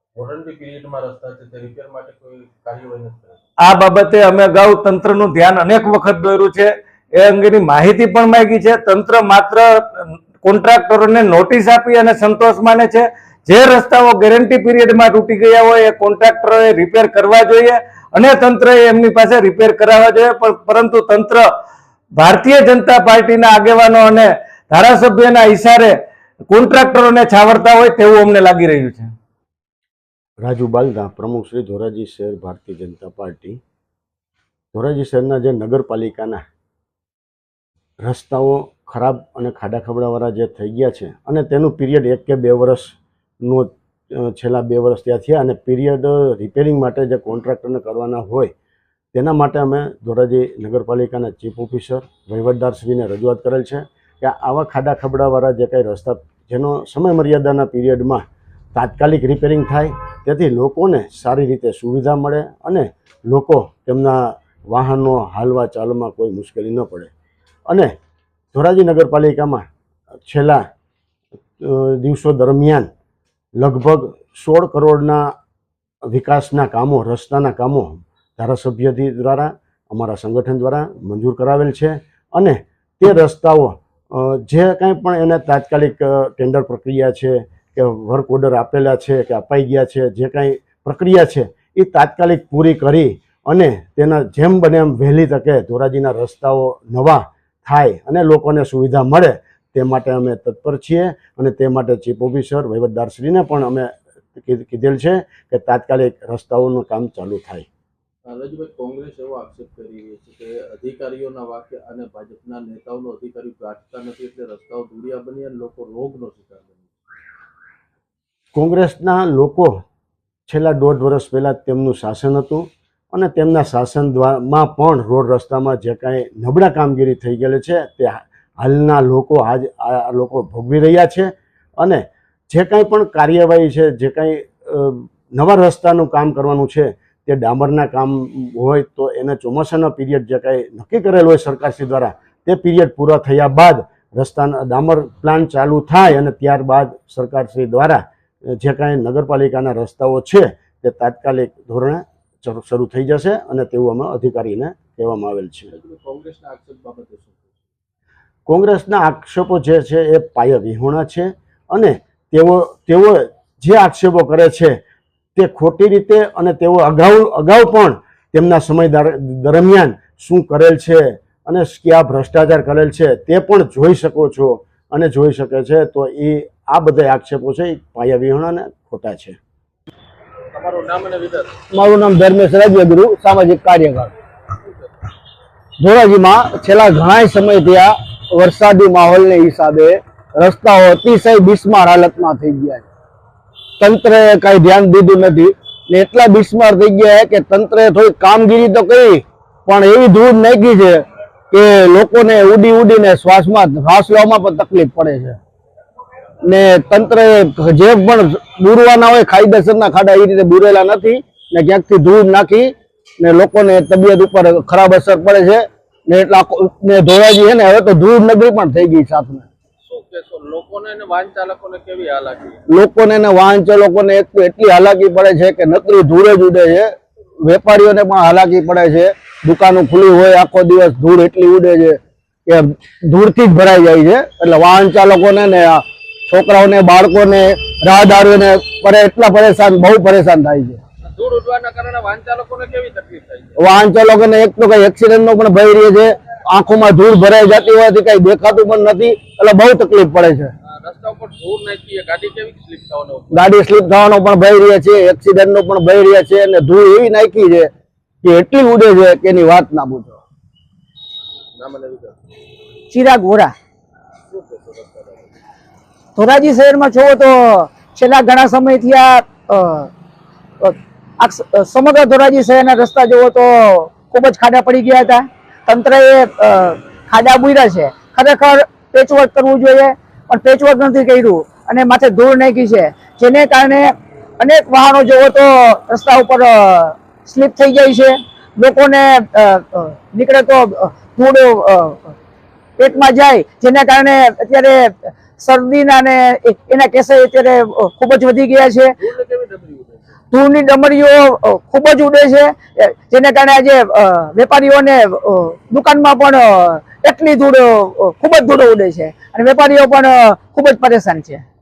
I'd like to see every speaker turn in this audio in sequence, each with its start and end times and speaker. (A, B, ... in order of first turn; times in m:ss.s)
0:00.1-0:03.4 A
0:03.6-0:21.4 B
0:22.1-0:26.0 B
0:26.5-0:29.1 B
0:30.4-0:33.6 C
0:34.7-0:36.4 C
0:38.0-0:48.5 C
0:49.1-0:58.2 C
0:58.7-1:07.1 C
1:08.5-1:09.7 C
1:10.2-1:10.6 C
1:11.6-1:12.9 C
1:13.6-1:15.3 C
1:16.1-1:47.7 C
1:48.2-1:56.9 A
1:58.5-1:59.7 C
2:00.5-2:35.7 C
2:35.7-2:37.5 A
2:38.5-2:44.8 C
2:45.4-2:59.4 C
3:00.5-3:01.5 A
3:01.7-3:04.1 D
3:04.5-3:05.0 A
3:05.8-3:12.8 D
3:13.8-3:25.4 D
3:26.4-3:39.4 D
3:39.8-3:42.6 A
3:42.7-3:46.9 D
3:47.4-4:00.8 D
4:01.0-4:03.6 A
4:03.6-4:10.5 D
4:10.6-4:13.6 A
4:13.3-4:17.7 D
4:18.2-4:20.2 D
4:21.6-4:22.2 A
4:22.9-4:23.5 E
4:24.3-4:25.3 A
4:26.2-4:29.9 E
4:30.6-4:52.1 E
4:52.8-4:58.9 E
4:59.0-5:00.1 A
5:00.3-5:11.4 E